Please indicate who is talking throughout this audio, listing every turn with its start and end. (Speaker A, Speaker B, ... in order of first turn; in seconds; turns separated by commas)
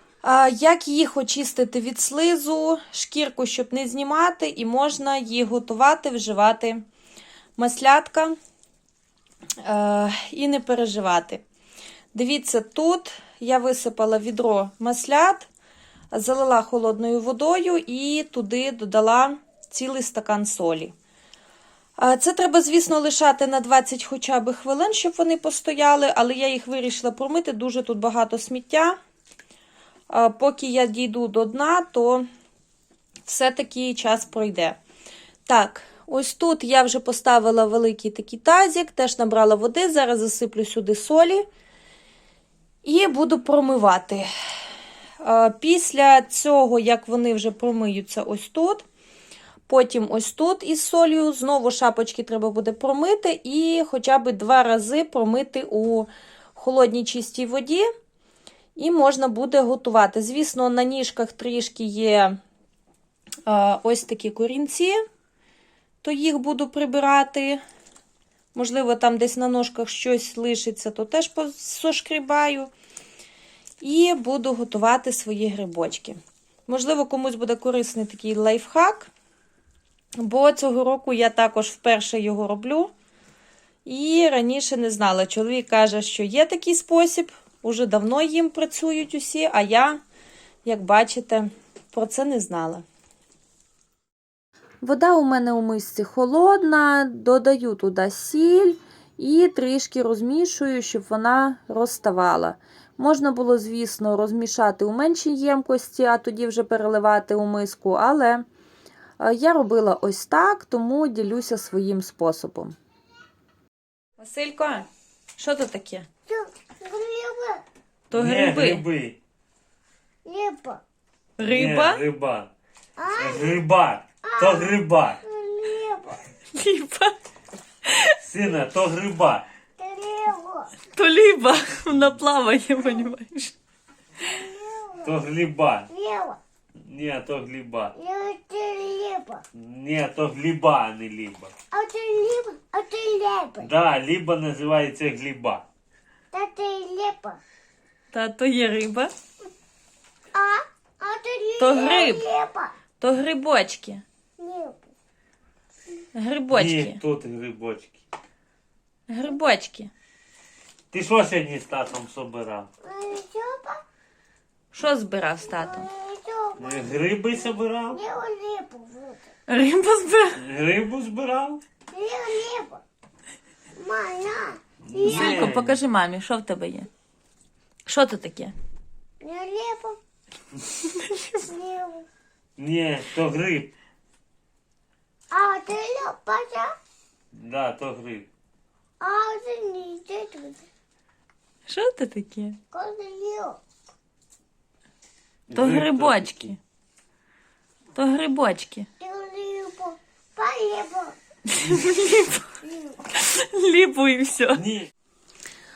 Speaker A: 0.2-6.8, Speaker A: 7.6-8.4, Speaker A: 9.6-11.4, Speaker A: 12.1-15.5, Speaker A: 16.1-20.9, Speaker A: 22.0-29.0, Speaker A: 30.1-32.3, Speaker A: 33.3-34.8, Speaker A: 35.5-41.5, Speaker A: 42.8-44.3, Speaker A: 45.2-48.9, Speaker A: 49.7-57.9, Speaker A: 58.8-62.4, Speaker A: 63.5-65.0, Speaker A: 66.0-67.6, Speaker A: 68.5-72.7, Speaker A: 73.8-79.1, Speaker A: 80.2-82.9, Speaker A: 83.8-90.0, Speaker A: 90.7-92.8, Speaker A: 94.8-108.5, Speaker A: 109.2-112.8, Speaker A: 114.2-116.1, Speaker B: 116.3-117.6, Speaker A: 118.1-118.8, Speaker C: 118.1-119.2, Speaker B: 120.3-120.8, Speaker A: 121.4-122.0, Speaker C: 121.4-122.5, Speaker B: 123.0-123.5, Speaker C: 123.2-125.2, Speaker B: 124.2-126.2, Speaker A: 126.5-127.2, Speaker A: 127.9-128.2, Speaker C: 128.2-129.5, Speaker B: 129.8-130.7, Speaker A: 130.8-133.5, Speaker B: 134.3-135.1, Speaker C: 135.0-135.9, Speaker B: 135.9-136.4, Speaker C: 136.8-137.9, Speaker B: 138.0-139.4, Speaker C: 139.5-141.5, Speaker B: 141.7-143.7, Speaker C: 143.6-145.7, Speaker B: 146.3-147.4, Speaker A: 148.1-149.1, Speaker B: 150.3-152.7, Speaker A: 151.6-152.3, Speaker A: 153.0-154.0, Speaker B: 154.4-154.8, Speaker A: 156.1-157.0, Speaker C: 156.5-158.0, Speaker A: 159.1-159.9, Speaker C: 160.9-162.7, Speaker B: 162.8-163.8, Speaker A: 164.7-165.9, Speaker B: 165.8-166.8, Speaker C: 166.6-168.0, Speaker B: 167.9-169.2, Speaker A: 169.5-170.4, Speaker C: 170.4-171.6, Speaker B: 171.9-172.8, Speaker B: 173.8-175.4, Speaker C: 174.9-175.8, Speaker A: 175.0-176.9, Speaker A: 177.9-178.5, Speaker B: 179.2-180.0, Speaker A: 180.9-181.3, Speaker B: 181.4-182.1, Speaker C: 182.6-183.7, Speaker B: 185.3-186.8, Speaker C: 187.3-188.3, Speaker B: 189.0-190.7, Speaker A: 191.7-192.6, Speaker B: 192.7-193.6, Speaker C: 195.5-196.5, Speaker A: 195.5-196.6, Speaker A: 197.9-198.9, Speaker B: 199.0-201.2, Speaker A: 201.5-204.7, Speaker C: 204.6-204.9